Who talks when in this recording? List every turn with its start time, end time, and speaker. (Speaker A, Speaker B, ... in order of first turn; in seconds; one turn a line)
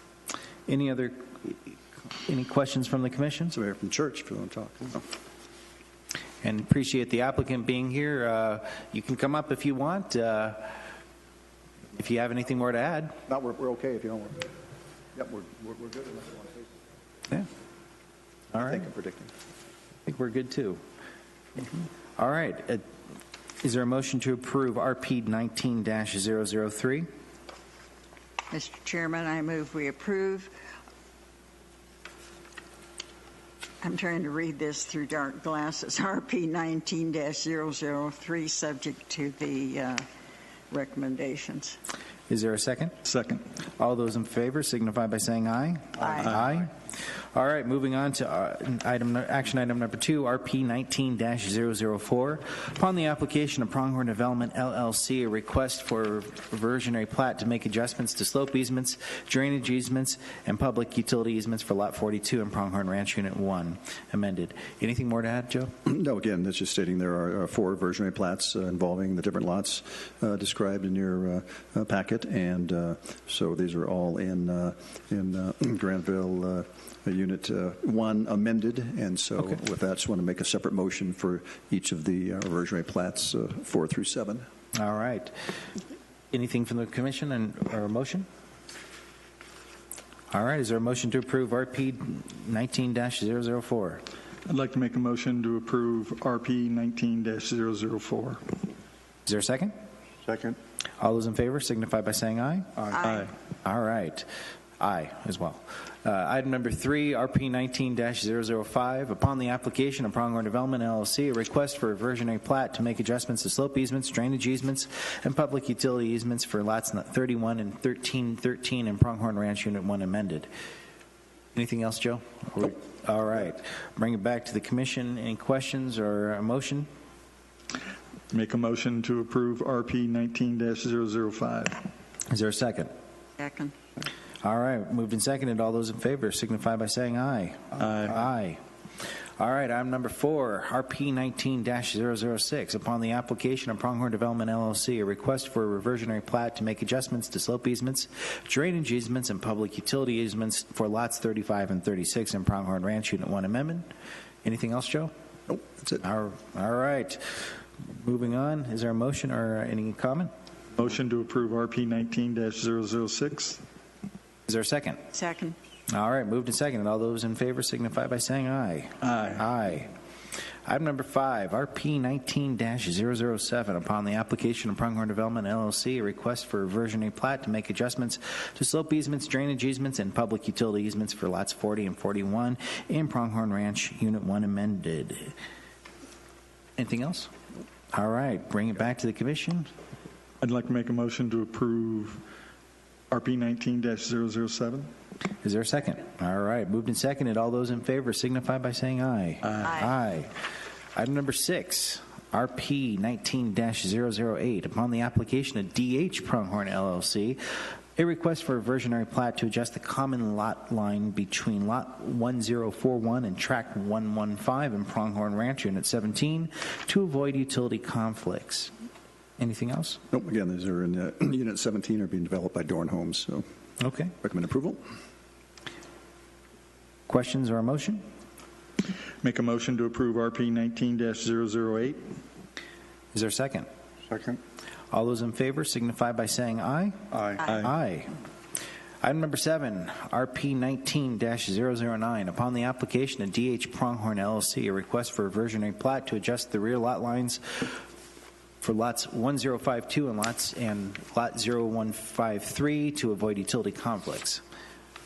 Speaker A: 0.7-3.5
Speaker B: 3.5-5.0
Speaker A: 6.4-10.8
Speaker A: 11.9-13.2
Speaker B: 13.3-14.4
Speaker B: 15.1-16.6
Speaker B: 18.5-19.3
Speaker A: 20.1-20.8
Speaker A: 22.2-22.8
Speaker A: 23.6-27.1
Speaker C: 28.5-30.5
Speaker C: 33.8-40.0
Speaker C: 40.7-41.8
Speaker A: 42.3-42.9
Speaker D: 43.0-43.4
Speaker A: 43.8-65.7
Speaker C: 46.0-46.3
Speaker B: 65.8-84.5
Speaker A: 84.7-85.3
Speaker A: 86.3-88.3
Speaker A: 90.3-94.0
Speaker D: 94.5-98.4
Speaker A: 99.2-99.7
Speaker D: 100.3-100.5
Speaker A: 101.0-102.7
Speaker D: 102.8-103.3
Speaker C: 102.9-103.3
Speaker A: 103.6-104.3
Speaker A: 104.8-120.5
Speaker A: 121.5-126.9
Speaker D: 128.3-131.8
Speaker A: 132.3-132.9
Speaker C: 133.4-133.7
Speaker A: 134.4-138.6
Speaker D: 137.8-138.1
Speaker A: 139.4-153.8
Speaker A: 154.4-155.1
Speaker B: 155.5-156.0
Speaker A: 156.0-160.3
Speaker D: 160.7-163.6
Speaker A: 164.5-165.0
Speaker C: 165.1-165.6
Speaker A: 165.9-169.9
Speaker D: 169.1-169.4
Speaker A: 170.7-185.3
Speaker A: 186.8-187.3
Speaker A: 187.9-189.7
Speaker D: 190.4-192.2
Speaker D: 193.1-194.9
Speaker A: 195.4-200.3
Speaker C: 199.6-199.9
Speaker A: 200.9-207.4
Speaker A: 207.9-218.7
Speaker A: 219.4-220.0
Speaker B: 220.1-223.4
Speaker A: 223.8-224.1
Speaker B: 224.2-224.8
Speaker A: 227.1-228.0
Speaker D: 229.2-232.0
Speaker A: 233.1-233.7
Speaker A: 234.9-238.1
Speaker D: 237.1-237.7
Speaker A: 239.0-247.8
Speaker A: 248.6-254.4